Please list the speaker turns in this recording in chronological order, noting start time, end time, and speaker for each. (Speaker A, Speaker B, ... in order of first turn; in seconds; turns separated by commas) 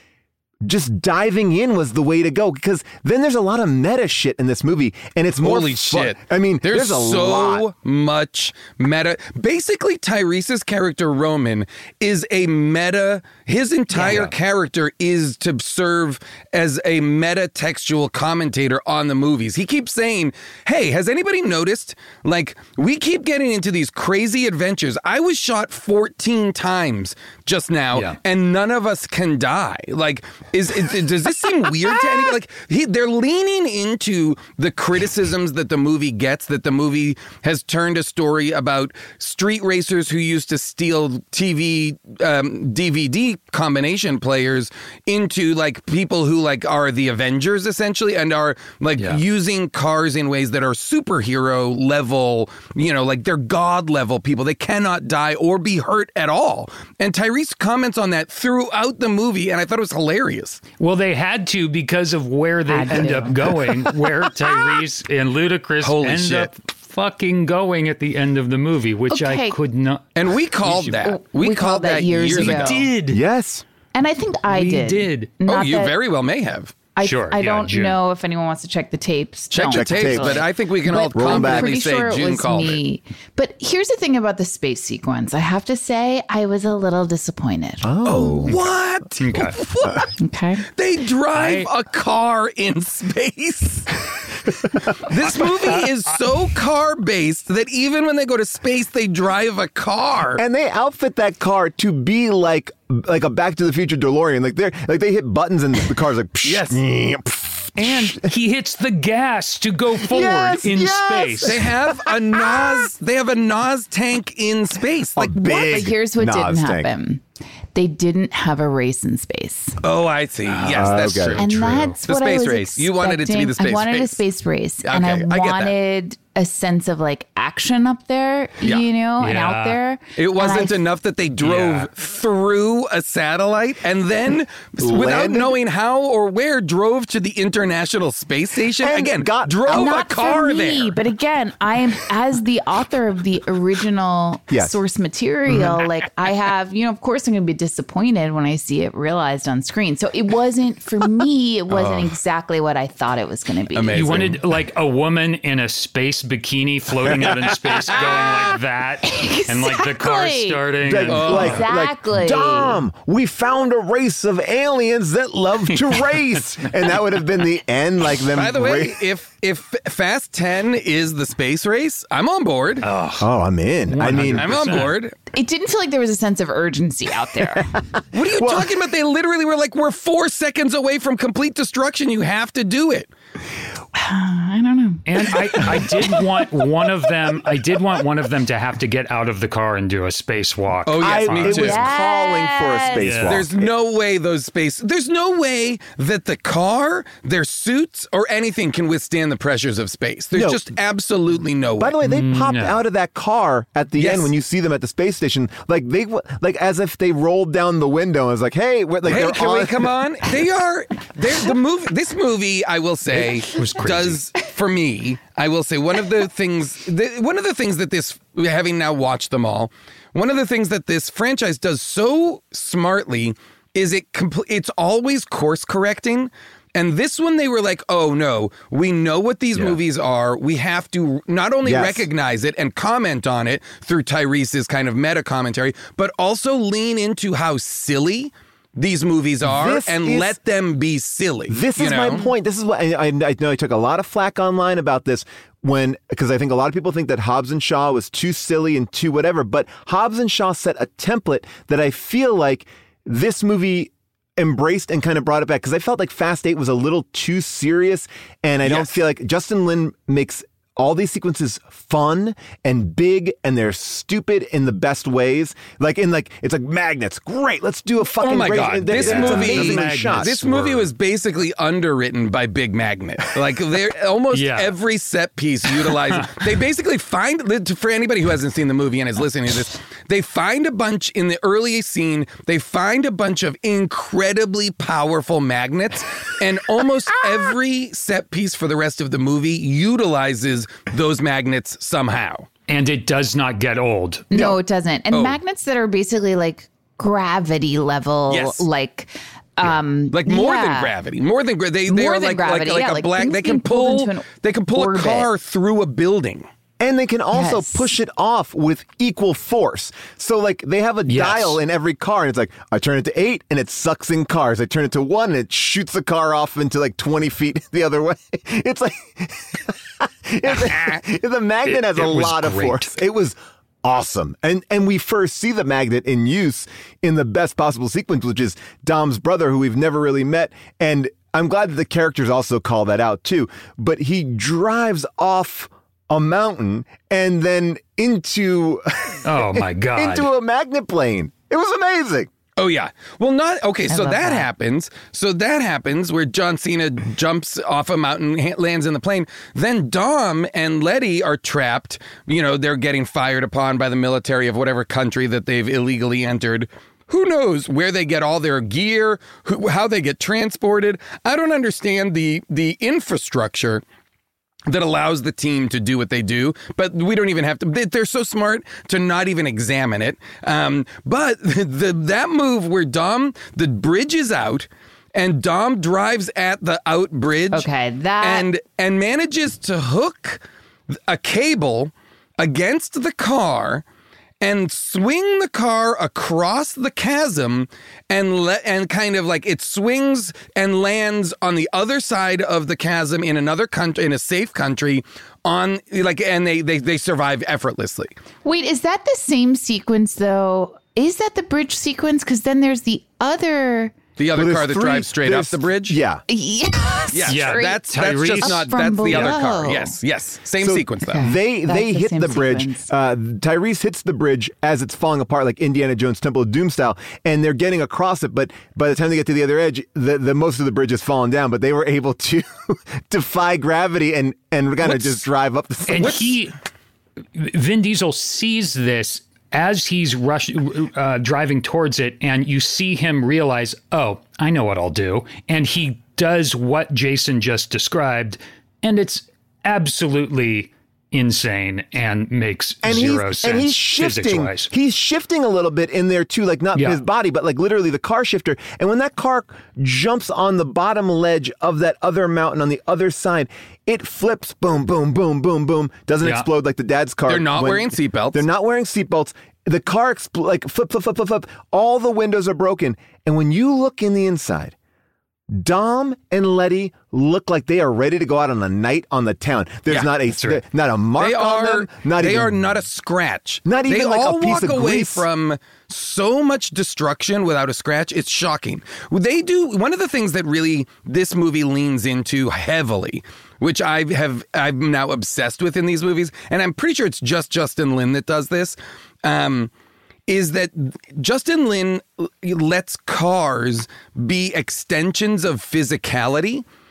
Speaker A: 0.6-7.7, Speaker B: 5.4-60.6, Speaker C: 13.9-14.3, Speaker C: 60.8-70.0, Speaker D: 62.7-63.4, Speaker B: 65.8-66.5, Speaker D: 69.1-69.6, Speaker B: 70.2-72.9, Speaker C: 70.6-70.9, Speaker D: 70.9-72.8, Speaker C: 72.3-73.2, Speaker A: 73.1-73.6, Speaker D: 73.9-75.9, Speaker C: 74.5-75.3, Speaker B: 75.5-76.9, Speaker D: 77.0-88.2, Speaker C: 77.0-78.0, Speaker B: 79.5-82.8, Speaker A: 79.7-80.4, Speaker A: 81.1-81.7, Speaker A: 87.8-88.7, Speaker B: 88.0-90.1, Speaker C: 89.2-89.6, Speaker D: 90.2-90.6, Speaker B: 90.7-94.0, Speaker C: 91.3-91.7, Speaker B: 94.9-100.4, Speaker C: 95.1-96.2, Speaker A: 100.4-108.3, Speaker B: 106.4-106.8, Speaker C: 107.8-111.7, Speaker A: 110.0-112.8, Speaker B: 111.4-115.3, Speaker A: 115.2-116.9, Speaker D: 115.3-117.2, Speaker D: 117.7-119.8, Speaker B: 119.8-124.2, Speaker C: 120.5-121.9, Speaker A: 120.7-121.4, Speaker D: 121.4-130.7, Speaker B: 124.8-125.7, Speaker C: 129.2-129.8, Speaker B: 130.2-140.9, Speaker C: 131.4-131.9, Speaker A: 134.8-135.5, Speaker A: 138.8-140.3, Speaker D: 139.7-154.1, Speaker A: 144.5-144.7, Speaker B: 151.7-152.2, Speaker B: 153.7-154.4, Speaker C: 153.9-161.6, Speaker B: 157.2-158.5, Speaker D: 159.0-162.8, Speaker A: 160.8-169.0, Speaker B: 161.1-161.6, Speaker B: 168.3-172.8, Speaker C: 172.8-173.3, Speaker A: 173.2-174.5, Speaker C: 173.9-175.0, Speaker B: 174.0-175.1, Speaker D: 175.3-177.7, Speaker A: 177.4-178.7, Speaker B: 178.1-183.1, Speaker D: 183.9-185.8, Speaker C: 185.0-191.8, Speaker B: 190.8-191.8, Speaker A: 191.0-193.7, Speaker D: 191.5-193.1, Speaker C: 193.0-193.4, Speaker B: 193.2-201.9, Speaker A: 200.3-200.6, Speaker A: 201.8-209.9, Speaker C: 202.0-202.8, Speaker B: 204.0-204.3, Speaker B: 209.1-242.2, Speaker C: 213.1-214.2, Speaker A: 231.6-232.1, Speaker A: 239.4-240.3, Speaker A: 241.5-270.9, Speaker B: 268.2-292.5, Speaker C: 268.3-270.6, Speaker C: 274.3-274.7, Speaker C: 275.8-276.5, Speaker C: 292.7-294.4, Speaker D: 294.3-300.9, Speaker B: 295.1-295.4, Speaker B: 298.3-298.6, Speaker B: 300.1-306.5, Speaker D: 301.9-305.3, Speaker A: 306.8-342.3, Speaker D: 307.3-307.9, Speaker C: 311.1-311.6, Speaker C: 321.6-322.9, Speaker C: 339.2-340.3, Speaker B: 342.6-363.8, Speaker D: 343.9-344.5, Speaker B: 364.7-377.7, Speaker D: 377.5-378.5, Speaker B: 378.2-380.4, Speaker B: 381.1-383.8, Speaker B: 384.4-398.1, Speaker D: 398.4-403.9, Speaker B: 404.2-406.0, Speaker A: 404.3-406.2, Speaker D: 406.3-409.9, Speaker B: 407.1-411.2, Speaker C: 407.2-409.2, Speaker A: 410.6-426.3, Speaker D: 411.0-412.9, Speaker C: 425.9-426.5, Speaker C: 427.3-444.7, Speaker A: 442.8-464.7, Speaker C: 446.8-447.0, Speaker C: 456.2-456.5, Speaker B: 457.3-458.4, Speaker A: 465.5-472.7, Speaker C: 470.3-470.6, Speaker B: 471.2-489.7, Speaker A: 473.6-475.2, Speaker B: 490.3-496.6